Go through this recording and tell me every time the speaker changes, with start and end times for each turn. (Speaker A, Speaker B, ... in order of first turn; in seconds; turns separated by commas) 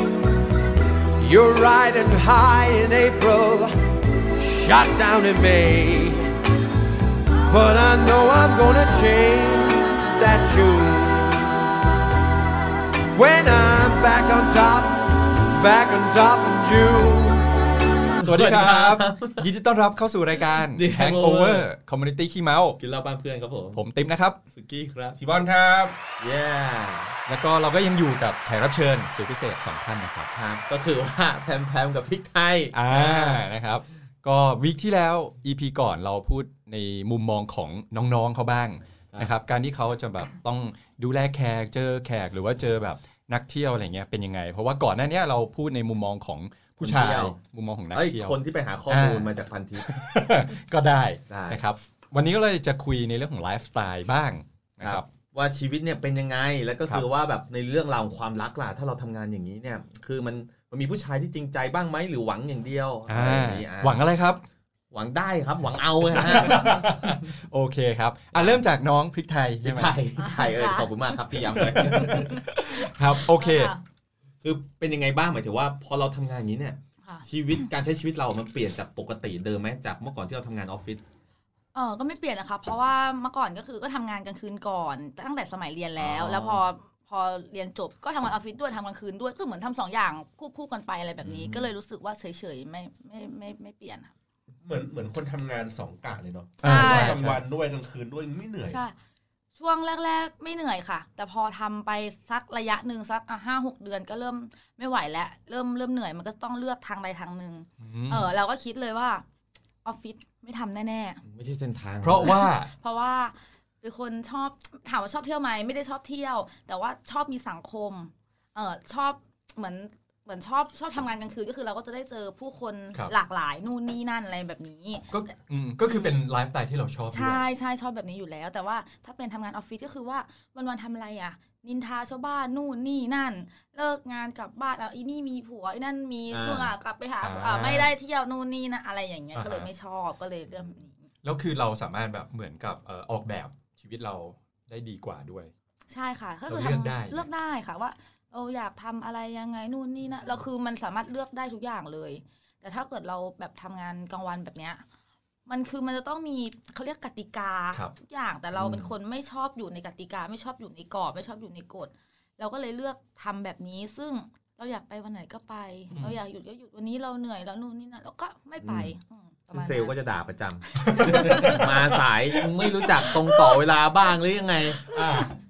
Speaker A: 1.2-3.8, Speaker A: 4.4-6.3, Speaker A: 7.5-11.6, Speaker A: 13.1-17.5, Speaker B: 18.2-19.4, Speaker C: 18.2-22.8, Speaker B: 20.5-21.7, Speaker B: 22.8-23.8, Speaker C: 23.7-24.4, Speaker B: 24.5-25.2, Speaker D: 25.2-25.9, Speaker B: 26.2-27.1, Speaker C: 27.3-30.3, Speaker B: 30.3-33.4, Speaker C: 32.7-48.4, Speaker B: 46.8-47.4, Speaker B: 47.9-49.9, Speaker C: 48.9-55.1, Speaker B: 51.3-51.6, Speaker B: 54.8-64.0, Speaker C: 63.1-64.4, Speaker B: 64.9-67.1, Speaker C: 66.1-70.0, Speaker B: 68.3-68.6, Speaker B: 69.6-72.3, Speaker E: 70.2-70.9, Speaker C: 71.5-73.7, Speaker E: 71.9-72.5, Speaker E: 73.1-73.8, Speaker B: 74.4-81.0, Speaker E: 81.7-94.1, Speaker B: 86.0-86.6, Speaker B: 91.2-91.7, Speaker D: 94.6-98.8, Speaker C: 96.6-97.4, Speaker E: 96.6-97.2, Speaker E: 98.7-99.0, Speaker E: 99.6-109.2, Speaker C: 107.8-108.3, Speaker E: 109.8-111.2, Speaker B: 111.2-112.5, Speaker C: 112.0-112.7, Speaker E: 112.7-125.1, Speaker C: 125.1-127.5, Speaker E: 127.1-141.1, Speaker B: 136.3-136.7, Speaker C: 137.2-137.9, Speaker C: 139.3-139.7, Speaker C: 141.2-145.5, Speaker E: 145.9-154.8, Speaker C: 146.5-147.3, Speaker E: 155.5-170.0, Speaker B: 158.6-158.9, Speaker C: 165.9-166.2, Speaker B: 168.6-168.9, Speaker B: 169.5-170.7, Speaker C: 170.8-171.7, Speaker E: 170.8-171.7, Speaker B: 171.2-175.0, Speaker C: 174.9-175.3